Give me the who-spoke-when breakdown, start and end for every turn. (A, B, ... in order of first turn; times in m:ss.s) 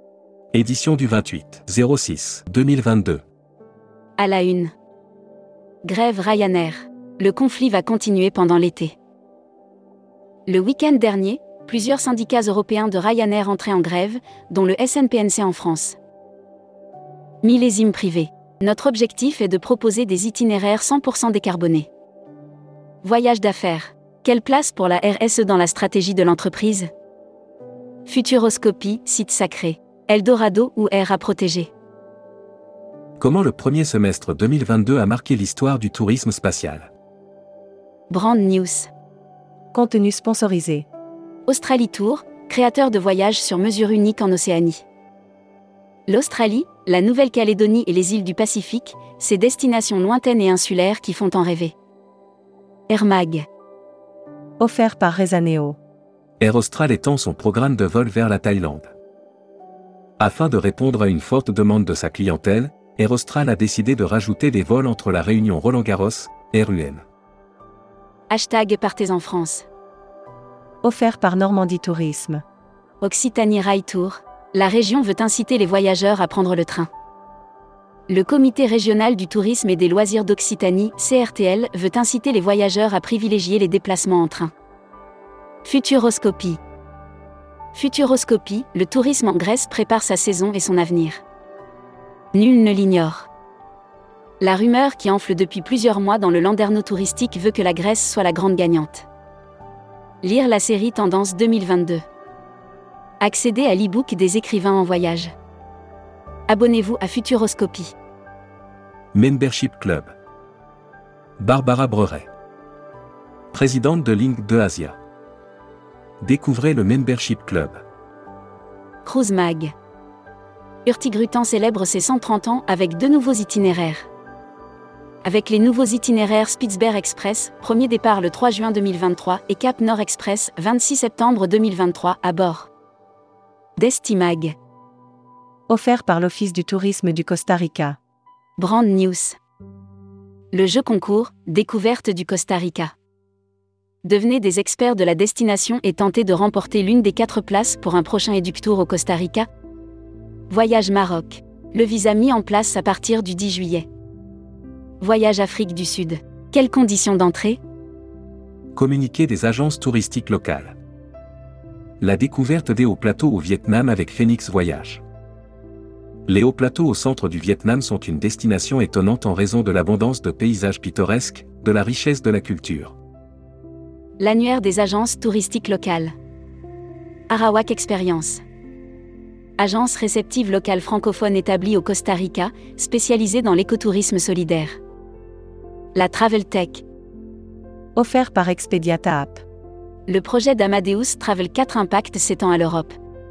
0:00.5-0:03.2 A
0:04.2-0:04.7 B
0:05.8-0:09.0 B
0:10.5-0:16.0 B
0:17.4-0:21.9 B
0:23.0-0:26.9 B
0:28.0-0:31.7 B
0:33.2-0:36.9 A
0:38.1-0:38.9 B
0:39.7-0:40.8 C
0:41.5-0:44.8 B
0:46.1-0:51.7 B
0:52.9-0:53.5 B
0:54.6-0:55.8 C
0:56.4-0:58.9 A
1:00.2-1:07.0 A
1:08.3-1:09.7 B
1:10.8-1:12.4 C
1:13.0-1:16.9 B
1:18.1-1:24.5 B
1:25.6-1:26.6 B
1:27.7-1:31.2 B
1:32.3-1:33.3 B
1:34.4-1:39.0 B
1:40.2-1:42.0 B
1:43.2-1:45.3 B
1:46.5-1:47.9 B
1:49.1-1:50.1 A
1:51.4-1:52.3 A
1:53.5-1:55.0 A
1:56.2-1:57.8 A
1:59.0-1:59.7 B
2:00.8-2:04.1 B
2:05.2-2:12.7 B
2:13.8-2:14.5 B
2:15.7-2:18.0 C
2:18.6-2:19.4 B
2:20.5-2:22.9 B
2:24.0-2:29.5 B
2:30.5-2:33.9 B
2:35.0-2:37.6 B
2:38.7-2:40.7 A
2:42.0-2:45.0 A
2:46.3-2:52.9 A
2:54.2-2:56.1 B
2:57.3-2:58.4 B
2:59.6-3:04.8 B
3:05.9-3:06.8 B
3:08.0-3:09.4 C
3:10.1-3:13.0 B